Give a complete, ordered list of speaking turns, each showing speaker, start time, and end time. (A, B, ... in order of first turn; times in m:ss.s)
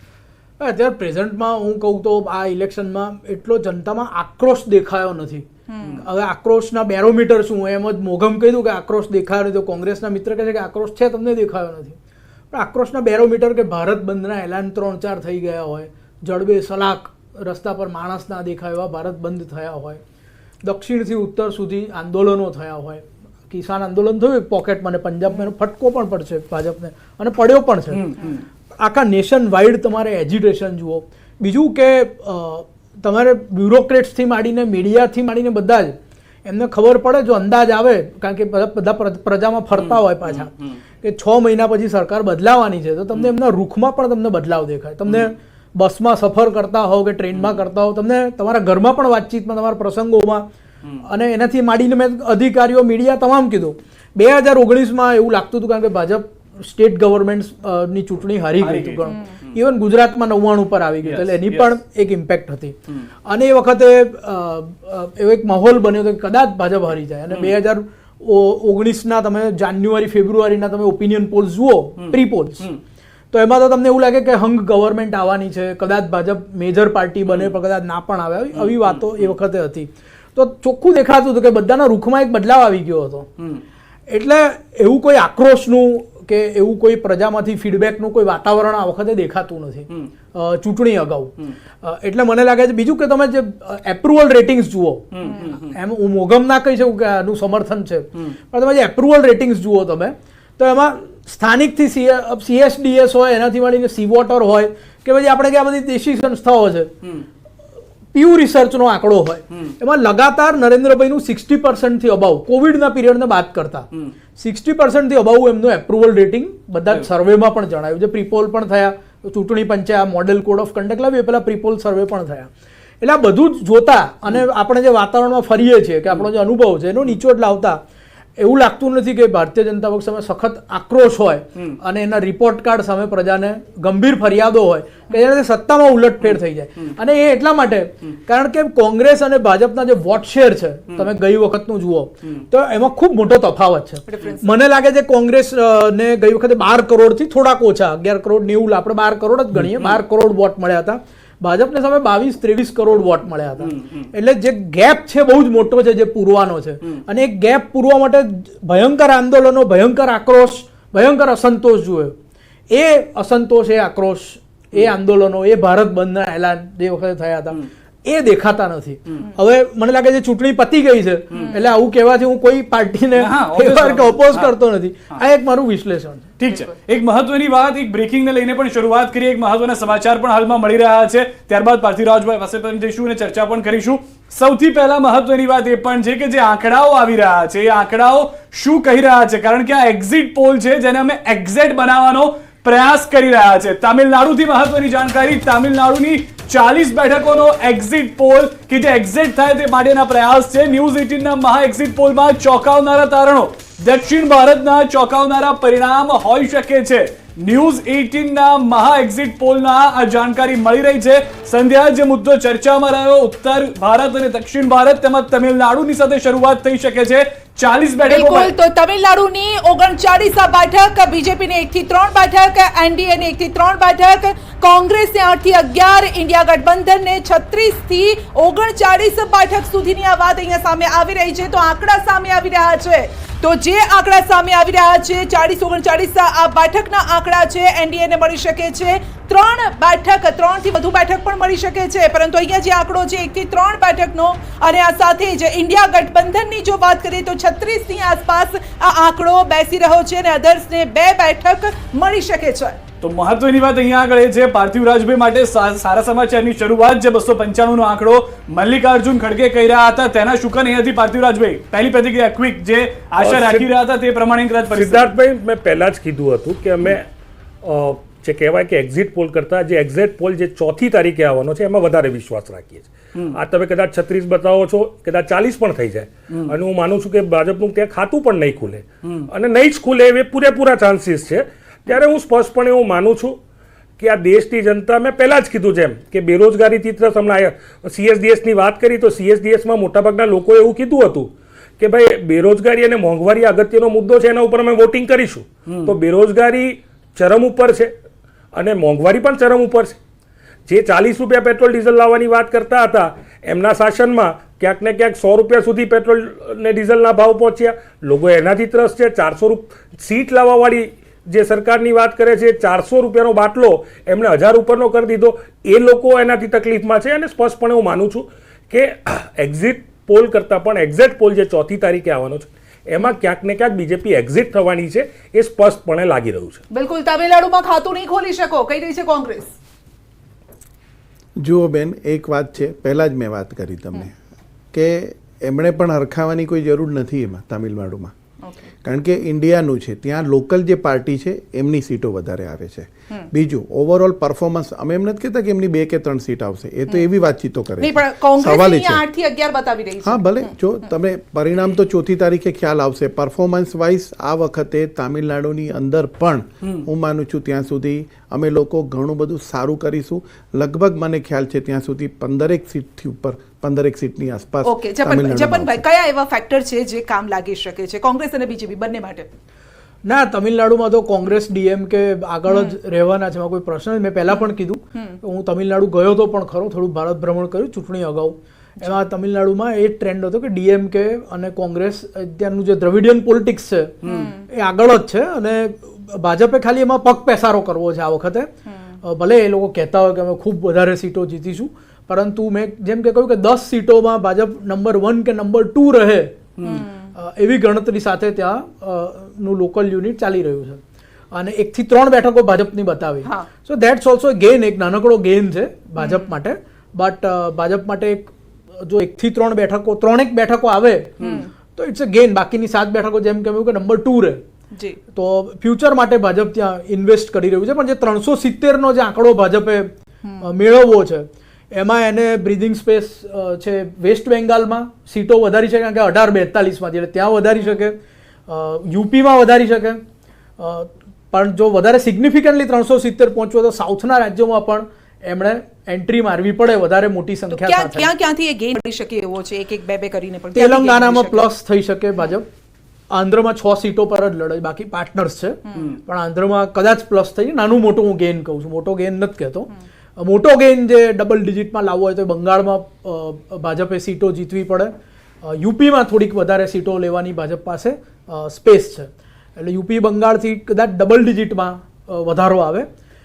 0:00.6-0:05.5 A
0:05.7-0:06.0 B
0:06.0-0:12.0 A
0:12.5-0:20.0 A
0:20.6-0:28.2 A
0:27.9-0:28.4 C
0:28.8-0:40.5 A
0:39.7-0:40.8 C
0:41.0-0:50.4 A
0:47.3-0:47.6 C
0:51.0-1:02.8 A
0:58.6-0:59.0 C
1:01.0-1:01.7 C
1:03.3-1:12.7 A
1:12.0-1:12.8 C
1:13.3-1:23.3 A
1:17.3-1:17.5 C
1:18.5-1:19.3 C
1:24.1-1:46.9 A
1:35.1-1:35.7 C
1:48.1-1:53.9 A
1:54.4-2:02.5 A
2:03.0-2:07.8 A
2:08.4-2:42.2 A
2:24.1-2:24.5 B
2:29.6-2:30.0 C
2:42.7-2:56.3 A
2:53.2-2:54.5 C
2:56.4-3:38.5 C
3:38.1-4:12.8 B
4:13.0-4:25.1 C
4:23.2-4:23.7 D
4:24.7-4:27.1 D
4:27.6-4:43.4 D
4:44.0-4:57.9 D
4:58.5-5:00.0 D
5:00.7-5:26.6 D
5:26.7-5:29.5 B
5:31.4-5:34.2 E
5:34.7-5:38.1 E
5:38.4-5:38.7 B
5:38.8-5:49.0 E
5:47.8-5:50.5 B
5:50.0-6:05.8 E
6:04.6-6:09.3 B
6:10.0-6:28.5 A
6:12.5-6:12.8 B
6:24.0-6:24.3 C
6:24.0-6:24.4 B
6:29.0-6:40.8 A
6:36.6-6:36.8 C
6:36.6-6:37.1 B
6:41.3-6:48.3 A
6:46.0-6:46.3 B
6:48.8-6:54.4 A
6:51.2-6:51.5 B
6:55.1-7:08.0 A
7:08.5-7:10.0 A
7:10.6-7:18.1 A
7:17.5-7:21.5 B
7:20.5-7:22.4 A
7:23.1-7:42.9 A